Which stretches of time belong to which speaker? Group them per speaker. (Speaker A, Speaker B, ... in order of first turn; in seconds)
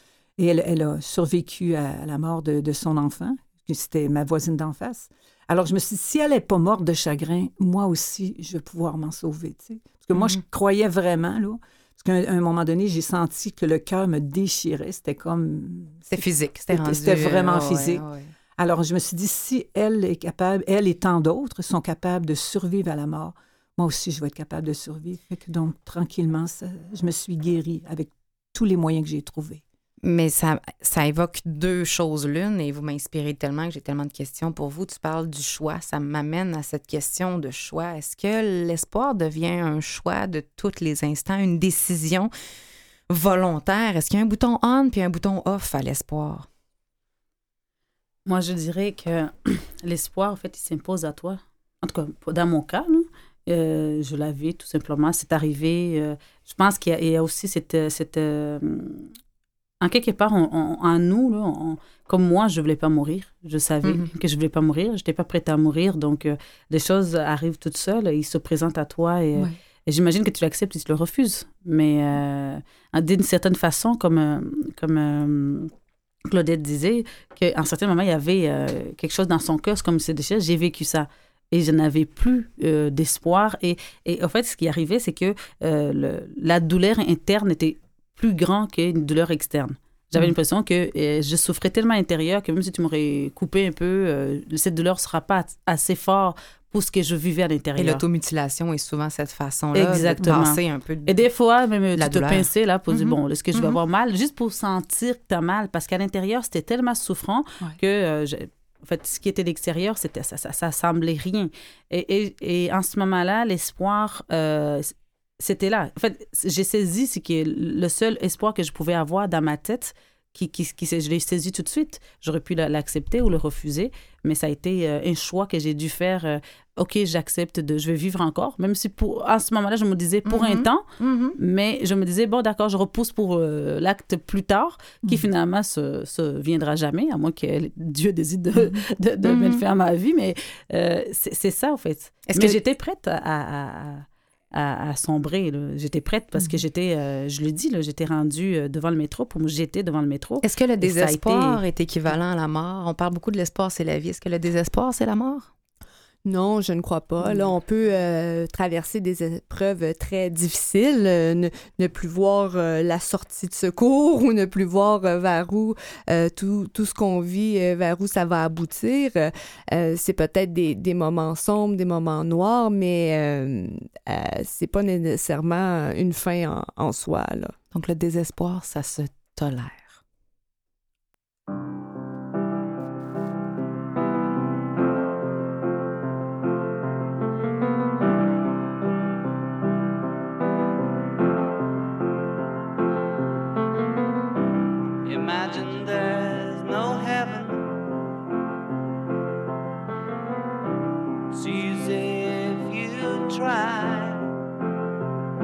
Speaker A: 0.4-18.0, 18.6-29.6, 138.6-138.8
Speaker B: 16.1-18.3, 30.0-42.3, 43.1-46.5, 63.8-64.1, 97.8-101.2, 102.0-103.8, 130.2-131.4, 139.2-139.6, 142.3-142.6, 150.4-155.5, 177.7-180.0
Speaker C: 48.3-59.1, 59.8-75.7, 76.3-98.0, 99.7-151.6
Speaker D: 156.2-177.6
Speaker E: 195.0-197.7, 201.3-204.3